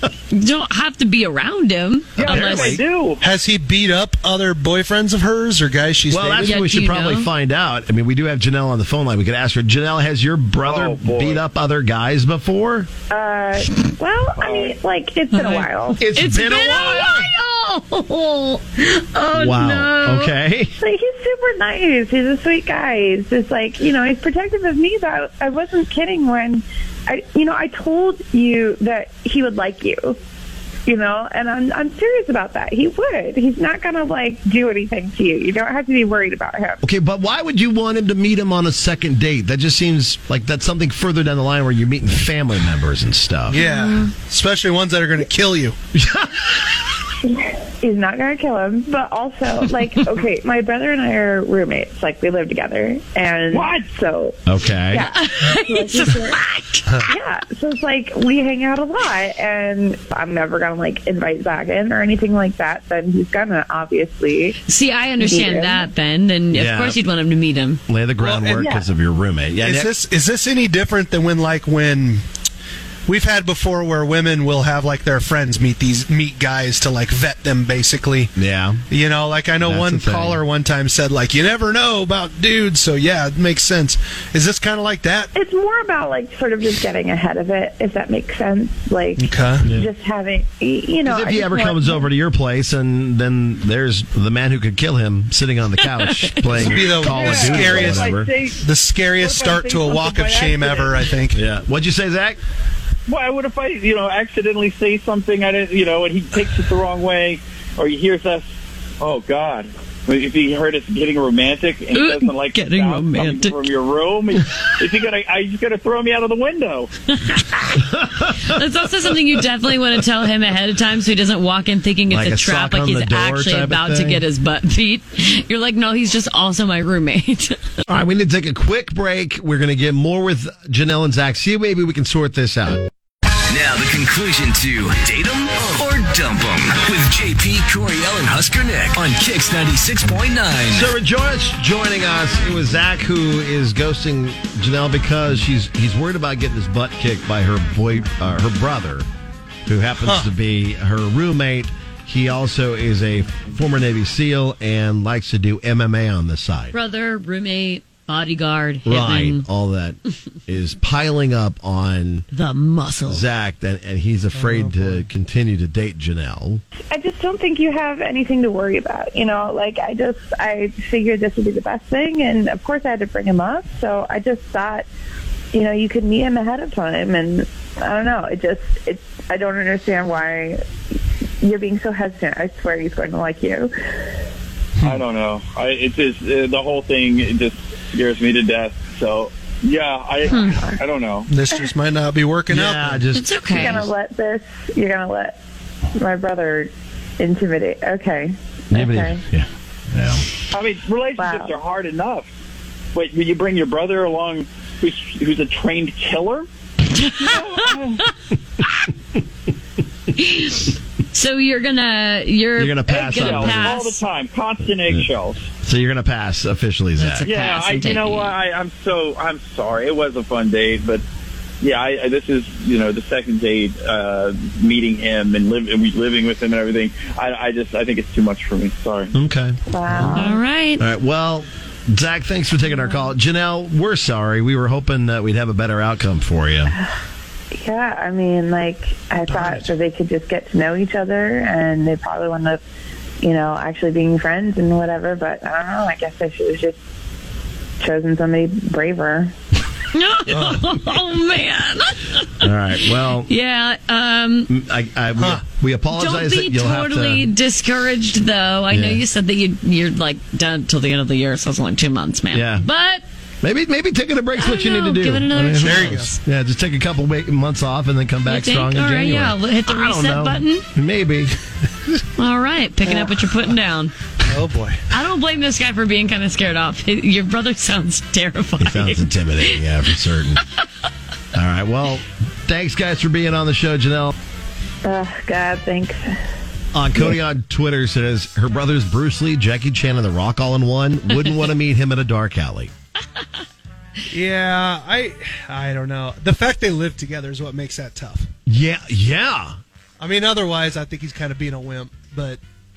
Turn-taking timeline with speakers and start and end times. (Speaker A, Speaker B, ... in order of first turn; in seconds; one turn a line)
Speaker A: 0.3-2.8
Speaker B: 2.2-3.2
Speaker C: 2.2-2.7
Speaker D: 2.6-6.6
Speaker C: 6.1-12.9
Speaker A: 6.4-7.3
Speaker B: 10.6-11.4
Speaker E: 13.1-16.0
Speaker B: 14.4-14.7
Speaker A: 15.3-20.3
Speaker C: 16.0-17.3
Speaker C: 19.3-20.7
Speaker E: 20.8-30.2
Speaker E: 30.9-36.8
Speaker C: 36.8-43.6
Speaker D: 43.5-45.8
Speaker A: 43.6-44.1
Speaker C: 46.0-46.5
Speaker E: 47.3-54.4
Speaker B: 53.5-53.9
Speaker C: 54.5-55.1
Speaker E: 54.9-56.4
Speaker A: 55.0-56.9
Speaker E: 57.0-64.6
Speaker A: 64.7-67.8
Speaker E: 65.2-65.9
Speaker C: 66.5-67.0
Speaker C: 67.9-69.9
Speaker D: 68.2-68.8
Speaker D: 69.6-72.2
Speaker D: 73.1-78.3
Speaker C: 78.4-78.8
Speaker D: 78.9-85.3
Speaker C: 79.6-80.4
Speaker E: 85.3-92.1
Speaker D: 89.2-89.7
Speaker C: 89.6-89.9
Speaker C: 91.0-98.3
Speaker A: 95.8-96.6
Speaker D: 96.5-101.4
Speaker B: 97.0-98.6
Speaker B: 99.2-101.0
Speaker C: 101.3-102.4
Speaker B: 103.1-108.5
Speaker B: 109.0-116.9
Speaker A: 111.9-113.6
Speaker A: 117.2-117.8
Speaker C: 117.9-118.6
Speaker A: 118.4-127.6
Speaker C: 122.1-124.2
Speaker C: 127.9-132.9
Speaker F: 133.5-140.9
Speaker C: 140.7-149.1
Speaker C: 149.7-156.8
Speaker D: 150.0-150.3
Speaker A: 156.7-159.4
Speaker C: 158.8-162.3
Speaker A: 162.3-163.3
Speaker C: 163.1-166.6
Speaker D: 164.3-165.1
Speaker E: 166.9-174.9
Speaker E: 175.5-180.6
Speaker E: 181.4-184.1
Speaker B: 184.8-191.3
Speaker A: 190.3-190.6
Speaker D: 191.3-193.0
Speaker C: 192.5-193.9
Speaker A: 193.1-193.9
Speaker E: 193.5-195.4
Speaker E: 195.9-199.2
Speaker C: 198.7-200.3
Speaker B: 200.5-202.3
Speaker E: 201.2-201.6
Speaker B: 202.9-206.5
Speaker A: 206.9-207.8
Speaker B: 207.2-208.0
Speaker A: 210.2-214.0
Speaker C: 212.6-213.8
Speaker B: 212.9-215.5
Speaker C: 215.6-217.3
Speaker A: 217.0-218.3
Speaker B: 217.2-221.0
Speaker B: 221.6-229.1
Speaker C: 229.1-236.7
Speaker E: 229.7-230.4
Speaker A: 230.1-230.8
Speaker E: 237.5-242.6
Speaker E: 243.2-246.8
Speaker E: 247.8-249.3
Speaker A: 249.9-252.5
Speaker D: 250.3-250.6
Speaker C: 252.4-253.3
Speaker A: 253.2-254.5
Speaker C: 254.5-257.3
Speaker D: 255.2-255.4
Speaker A: 255.9-263.0
Speaker C: 258.7-259.0
Speaker C: 262.3-262.7
Speaker C: 263.4-271.3
Speaker A: 264.4-266.1
Speaker D: 265.6-266.2
Speaker A: 268.3-270.7
Speaker A: 272.2-273.9
Speaker D: 272.9-273.1
Speaker D: 274.3-274.8
Speaker A: 274.9-279.6
Speaker C: 278.6-280.4
Speaker C: 281.3-284.1
Speaker E: 284.8-286.1
Speaker C: 286.7-292.7
Speaker D: 294.1-298.3
Speaker C: 298.5-299.6
Speaker D: 300.0-302.4